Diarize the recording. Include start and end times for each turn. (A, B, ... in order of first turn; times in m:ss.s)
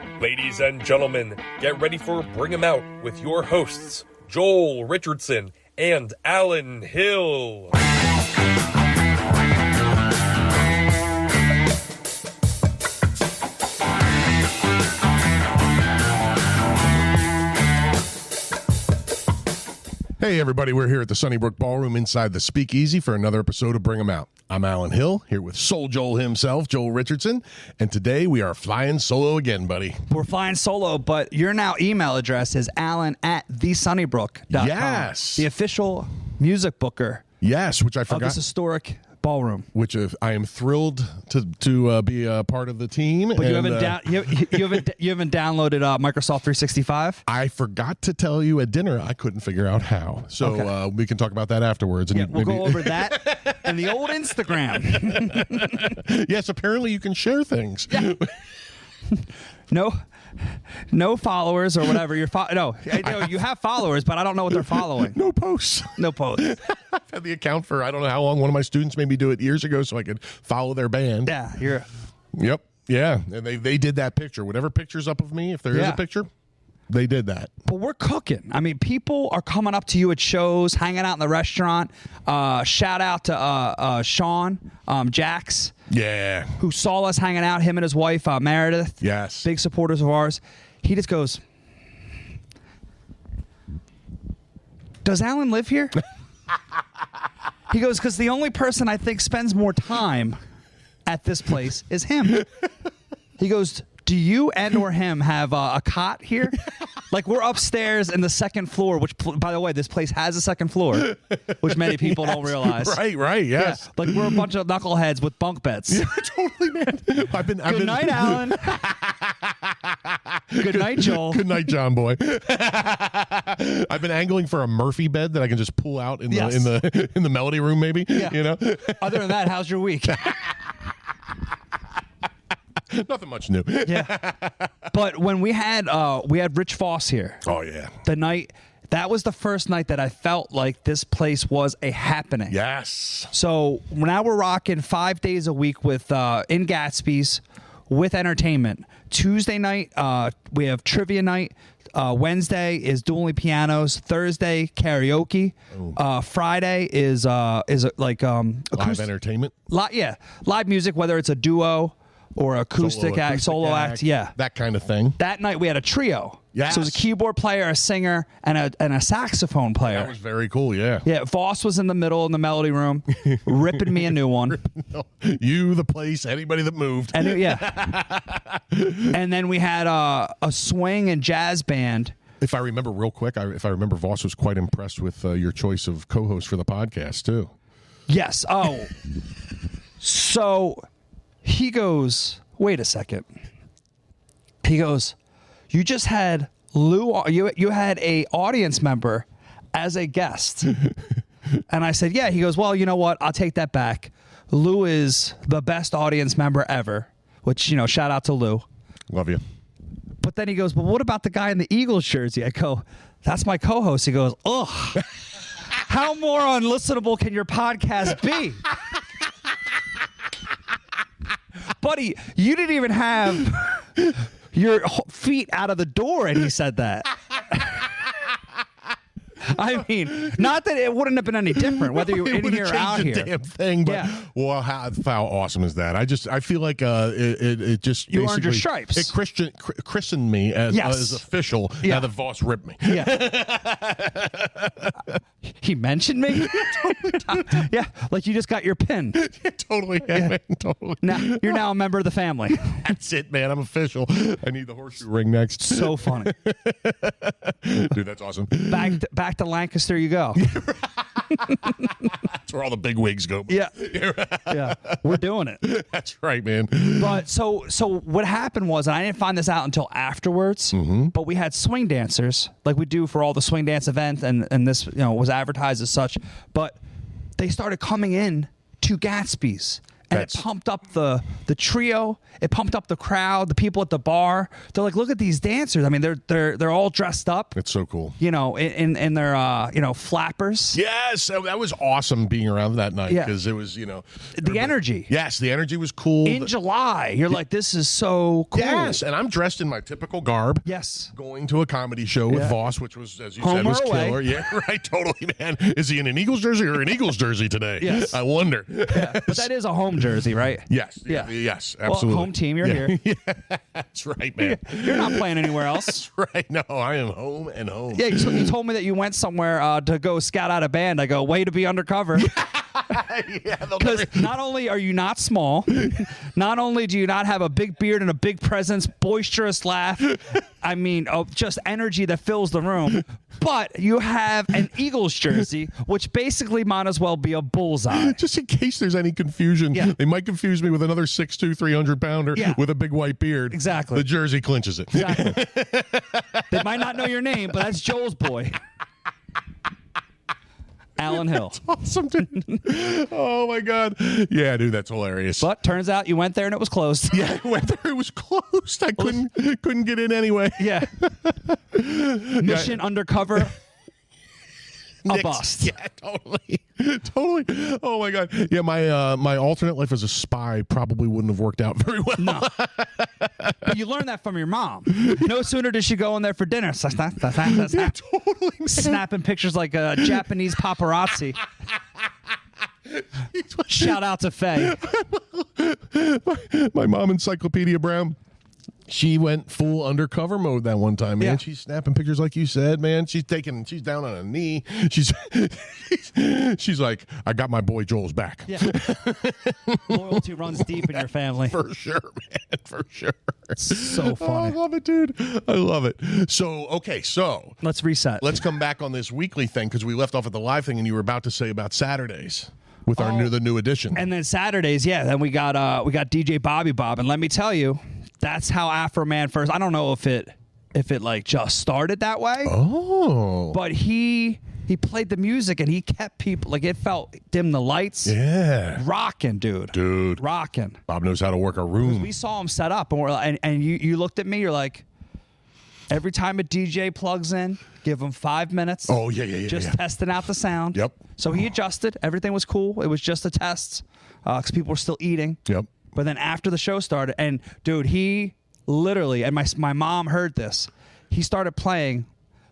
0:00.2-0:07.8 A
0:20.2-0:30.0 B
0:30.1-0:37.2 C
0:34.5-0:35.5 B
0:37.4-0:38.4 B
0:38.1-0:39.7 C
0:39.7-0:44.8 B
0:43.4-0:47.2 C
0:47.3-0:58.4 B
0:50.4-0:50.7 C
0:52.1-0:56.0 C
0:57.9-0:58.2 C
0:59.1-1:05.2 C
1:03.0-1:03.4 B
1:04.5-1:11.3 B
1:06.0-1:06.6 C
1:11.3-1:11.9 C
1:12.3-1:16.3 B
1:15.7-1:16.0 C
1:16.9-1:17.5 B
1:17.6-1:25.7 C
1:25.9-1:26.6 B
1:26.6-1:31.4 C
1:29.0-1:29.5 B
1:35.0-1:36.0 C
1:37.7-1:40.4 C
1:41.1-1:42.5 C
1:43.4-1:53.0 C
1:50.9-1:54.4 B
1:53.6-1:56.0 C
1:55.9-2:09.4 B
1:57.7-1:58.7 C
2:00.6-2:01.6 C
2:06.3-2:06.7 C
2:08.1-2:10.3 C
2:10.1-2:10.6 B
2:12.9-2:14.9 B
2:13.8-2:14.2 C
2:14.9-2:17.4 C
2:17.4-2:18.0 B
2:18.0-2:22.6 C
2:22.5-2:23.3 B
2:23.3-2:39.1 C
2:35.7-2:36.0 B
2:38.8-2:39.5 B
2:39.7-2:44.4 C
2:42.8-2:45.2 B
2:45.2-2:50.1 C
2:46.5-2:47.1 B
2:49.8-2:51.1 B
2:51.0-2:54.6 C
2:53.2-2:59.2 B
2:57.1-2:58.0 C
2:59.1-3:02.2 C
3:02.4-3:07.5 B
3:08.1-3:09.0 C
3:10.0-3:10.9 C
3:11.4-3:13.3 C
3:14.6-3:15.2 C
3:15.7-3:20.8 C
3:21.7-3:28.7 C
3:29.1-3:29.4 B
3:30.2-3:35.1 C
3:35.7-3:38.6 C
3:41.8-3:47.8 C
3:49.4-3:53.3 C
3:51.6-4:05.1 B
3:53.8-3:54.1 C
3:58.1-3:59.2 C
4:00.7-4:01.2 C
4:01.8-4:02.1 C
4:02.9-4:03.2 C
4:05.5-4:09.2 C
4:06.3-4:07.7 B
4:09.2-4:11.6 B
4:10.0-4:10.4 C
4:11.0-4:12.8 C
4:12.6-4:19.0 B
4:15.6-4:16.3 C
4:18.7-4:20.5 C
4:20.4-4:25.0 B
4:23.5-4:23.8 C
4:24.5-4:25.6 C
4:25.6-4:27.2 B
4:27.0-4:36.8 C
4:30.7-4:31.1 B
4:37.4-4:47.6 C
4:40.1-4:40.4 B
4:47.6-4:48.2 B
4:48.2-4:50.8 C
4:50.7-4:56.5 B
4:53.1-4:53.3 C
4:54.4-4:55.1 C
4:56.2-4:59.0 C
4:58.5-5:09.5 B
5:00.6-5:01.1 C
5:02.3-5:02.6 C
5:03.4-5:04.2 C
5:07.8-5:08.2 C
5:08.9-5:11.3 C
5:10.7-5:18.5 B
5:11.8-5:13.0 C
5:14.4-5:16.0 C
5:17.9-5:22.3 C
5:22.2-5:24.3 B
5:23.8-5:38.2 C
5:37.9-5:47.0 B
5:42.3-5:42.6 C
5:43.5-5:44.1 C
5:44.9-5:45.4 C
5:46.5-5:48.6 C
5:51.0-5:51.6 C
5:51.1-5:55.5 B
5:55.4-5:57.2 C
5:57.1-6:02.8 B
5:59.0-5:59.2 C
6:00.6-6:00.9 C
6:02.4-6:03.6 C
6:05.0-6:13.8 B
6:05.1-6:05.7 C
6:12.2-6:12.5 C
6:13.6-6:18.0 C
6:17.3-6:19.0 B
6:18.7-6:21.4 C
6:20.0-6:20.3 B
6:22.9-6:24.0 B
6:23.7-6:24.8 C
6:24.6-6:28.2 B
6:28.9-6:47.6 B
6:38.5-6:38.8 C
6:39.9-6:41.6 C
6:43.6-6:44.6 C
6:47.6-6:48.4 C
6:48.2-6:54.1 B
6:53.0-6:53.3 C
6:53.9-7:02.6 C
7:02.4-7:03.6 B
7:03.5-7:08.2 C
7:08.0-7:08.8 B
7:08.8-7:10.8 C
7:09.7-7:10.2 B
7:10.9-7:12.1 B
7:11.8-7:14.8 C
7:15.9-7:25.4 C
7:18.9-7:19.8 B
7:20.7-7:21.0 B
7:25.5-7:25.7 B
7:25.9-7:32.1 C